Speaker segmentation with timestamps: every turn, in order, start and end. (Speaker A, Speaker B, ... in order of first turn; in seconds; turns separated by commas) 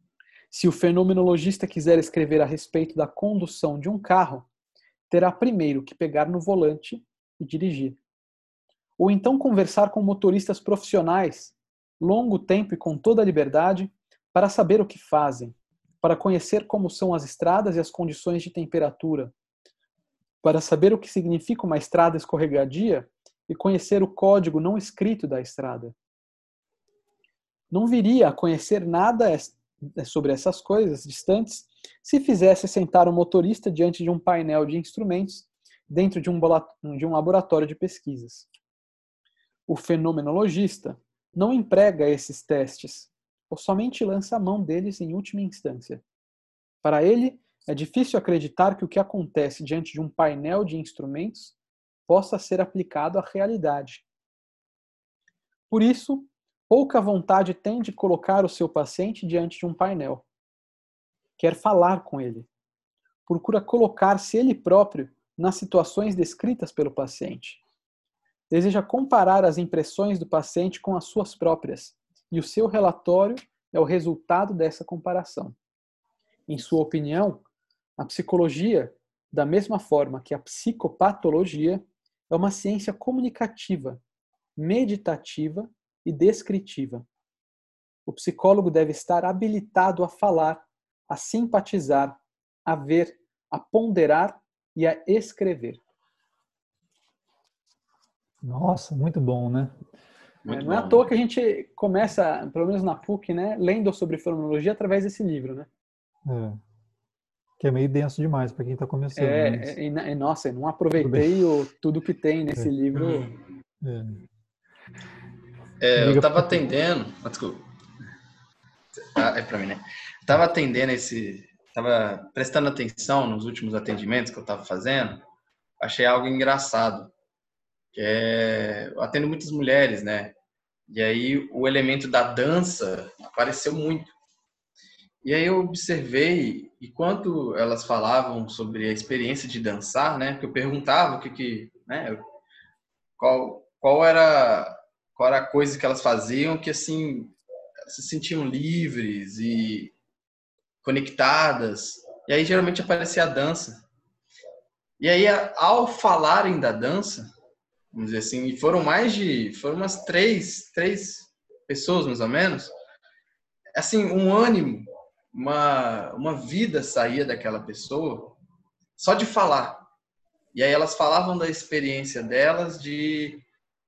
Speaker A: 0.5-4.5, Speaker A: 5.1-8.0, Speaker A: 9.0-19.3, Speaker A: 20.4-25.9, Speaker A: 27.7-38.5, Speaker A: 39.7-46.0, Speaker A: 46.8-51.5, Speaker A: 52.1-54.0, Speaker A: 55.7-60.2, Speaker A: 61.4-62.5, Speaker A: 63.3-67.6, Speaker A: 68.5-75.5, Speaker A: 76.5-77.4, Speaker A: 78.0-84.0, Speaker A: 84.6-87.0, Speaker A: 88.1-95.8, Speaker B: 98.4-99.8, Speaker C: 100.4-101.1, Speaker A: 100.5-105.7, Speaker B: 106.2-106.6, Speaker B: 107.6-109.8, Speaker A: 109.1-113.3, Speaker B: 111.0-111.3, Speaker B: 113.8-114.2, Speaker C: 115.8-117.6, Speaker B: 116.0-116.6, Speaker C: 119.0-125.2, Speaker C: 125.8-127.1, Speaker C: 127.9-130.3, Speaker C: 130.9-134.1, Speaker C: 135.2-142.2, Speaker C: 143.2-147.3, Speaker C: 147.9-149.9, Speaker C: 150.8-153.8, Speaker C: 155.0-157.3, Speaker C: 157.9-162.7, Speaker C: 163.7-168.4, Speaker C: 169.0-169.9, Speaker C: 170.5-173.4